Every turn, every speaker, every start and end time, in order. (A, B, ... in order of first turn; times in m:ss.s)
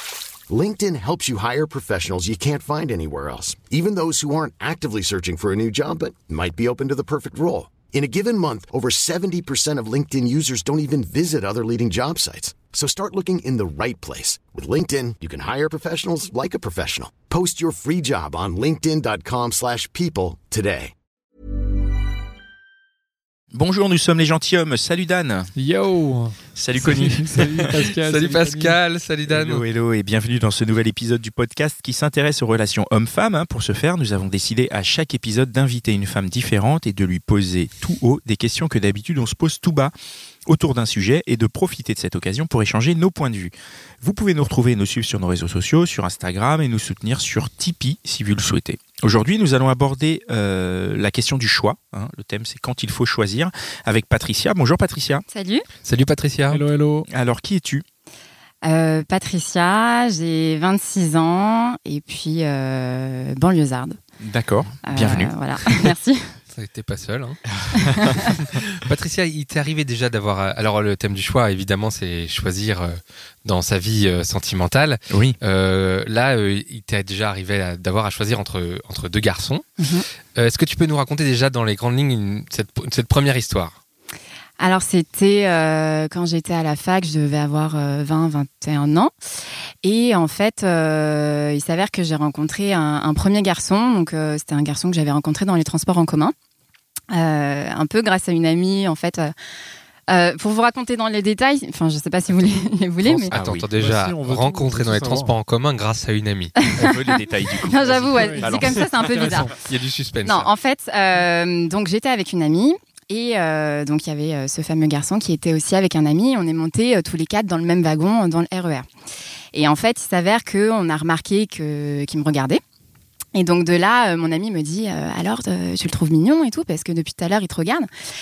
0:00.5-0:20.9 A
0:23.5-0:25.5 B
0:25.6-0:28.8 C
0:26.6-0:27.8 B
0:28.0-0:29.6 D
0:29.3-0:39.9 B
0:40.5-0:55.2 B
0:55.3-0:55.6 E
0:55.8-0:56.6 D
0:56.5-0:57.1 C
0:57.1-0:57.8 B
0:58.6-1:04.0 E
1:04.2-1:05.8 B
1:04.9-1:06.3 E
1:06.5-1:07.4 D
1:07.5-1:08.2 B
1:07.7-1:08.3 E
1:08.0-1:19.6 D
1:15.1-1:15.4 B
1:19.8-1:20.0 E
1:20.4-1:23.8 D
1:24.6-1:29.1 E
1:29.8-1:36.3 E
1:37.1-1:39.3 E
1:40.1-1:43.3 E
1:43.0-1:45.3 C
1:43.3-1:46.6 D
1:43.3-1:43.6 B
1:46.6-1:49.6 E
1:46.7-1:49.2 B
1:48.2-1:48.5 C
1:49.1-1:49.5 C
1:49.6-1:50.5 D
1:50.2-1:58.9 E
1:59.5-2:02.6 E
2:03.4-2:07.9 E